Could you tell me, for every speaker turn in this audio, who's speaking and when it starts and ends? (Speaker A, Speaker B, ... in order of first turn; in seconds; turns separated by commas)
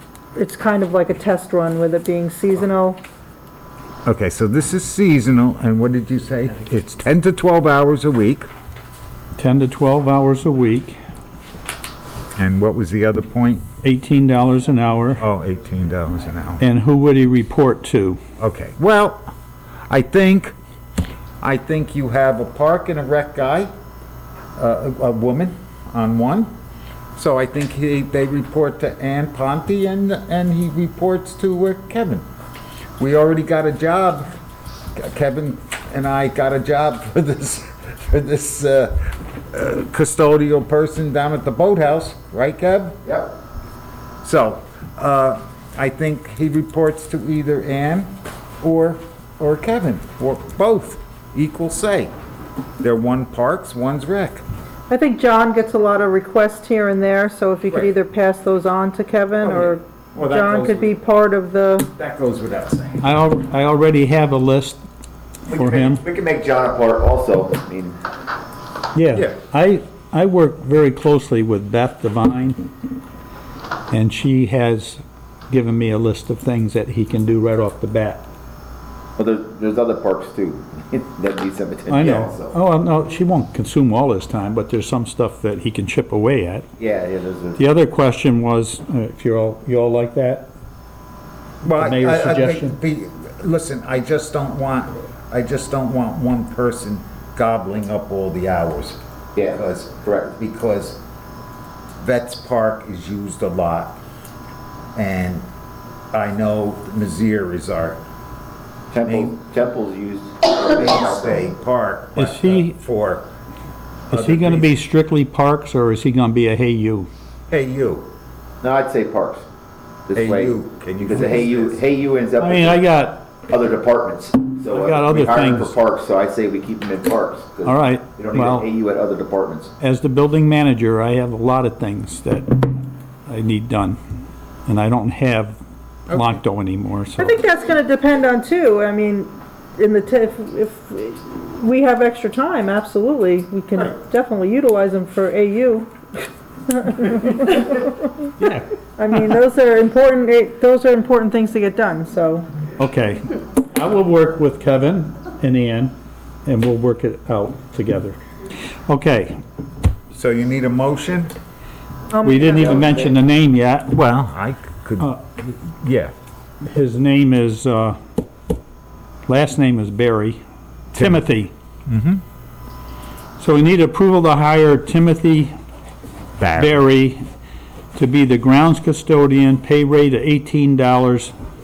Speaker A: 0.3-3.0, Speaker B: 4.0-8.5, Speaker C: 9.4-11.0, Speaker B: 12.4-13.7, Speaker C: 13.8-15.2, Speaker B: 15.2-16.6, Speaker C: 16.6-18.2, Speaker B: 18.4-19.3, Speaker B: 19.9-20.6, Speaker B: 21.4-23.7, Speaker B: 24.6-26.5, Speaker B: 27.2-32.3, Speaker B: 33.0-34.4, Speaker B: 35.0-43.0, Speaker B: 44.2-52.1, Speaker B: 52.8-54.5, Speaker A: 54.9-61.9, Speaker B: 59.4-60.9, Speaker B: 61.9-63.0, Speaker C: 63.0-64.8, Speaker D: 65.5-68.0, Speaker C: 65.5-66.0, Speaker C: 68.9-72.7, Speaker C: 73.9-78.2, Speaker D: 79.2-82.6, Speaker C: 81.9-86.7, Speaker D: 86.8-87.6, Speaker C: 87.5-90.5, Speaker B: 91.6-101.0, Speaker C: 91.7-92.8, Speaker D: 99.4-100.3, Speaker B: 102.0-104.0, Speaker B: 105.0-105.5, Speaker B: 106.1-108.0, Speaker D: 108.9-111.4, Speaker B: 109.0-109.4, Speaker B: 110.7-113.3, Speaker C: 112.2-112.8, Speaker B: 114.1-114.8, Speaker C: 114.1-117.1, Speaker B: 117.5-118.1, Speaker D: 118.6-119.5, Speaker D: 120.1-122.9, Speaker B: 120.2-121.8, Speaker C: 122.4-123.2, Speaker D: 123.5-129.7, Speaker C: 124.7-125.8, Speaker C: 127.6-128.7, Speaker C: 129.8-134.0, Speaker C: 134.7-137.4, Speaker B: 136.1-136.4, Speaker A: 137.2-145.9, Speaker A: 146.7-148.3, Speaker C: 148.4-148.7, Speaker A: 149.0-152.5, Speaker C: 152.8-155.9, Speaker C: 156.5-158.2, Speaker C: 158.9-159.4, Speaker B: 160.1-161.3, Speaker A: 162.1-163.0, Speaker C: 162.2-164.0, Speaker D: 162.8-163.1, Speaker B: 163.9-166.1, Speaker C: 166.7-168.0, Speaker C: 169.3-170.4, Speaker C: 170.9-171.5, Speaker B: 170.9-171.2, Speaker B: 171.9-172.2, Speaker C: 173.4-175.5, Speaker B: 176.4-176.8, Speaker C: 176.6-177.2, Speaker C: 177.9-181.3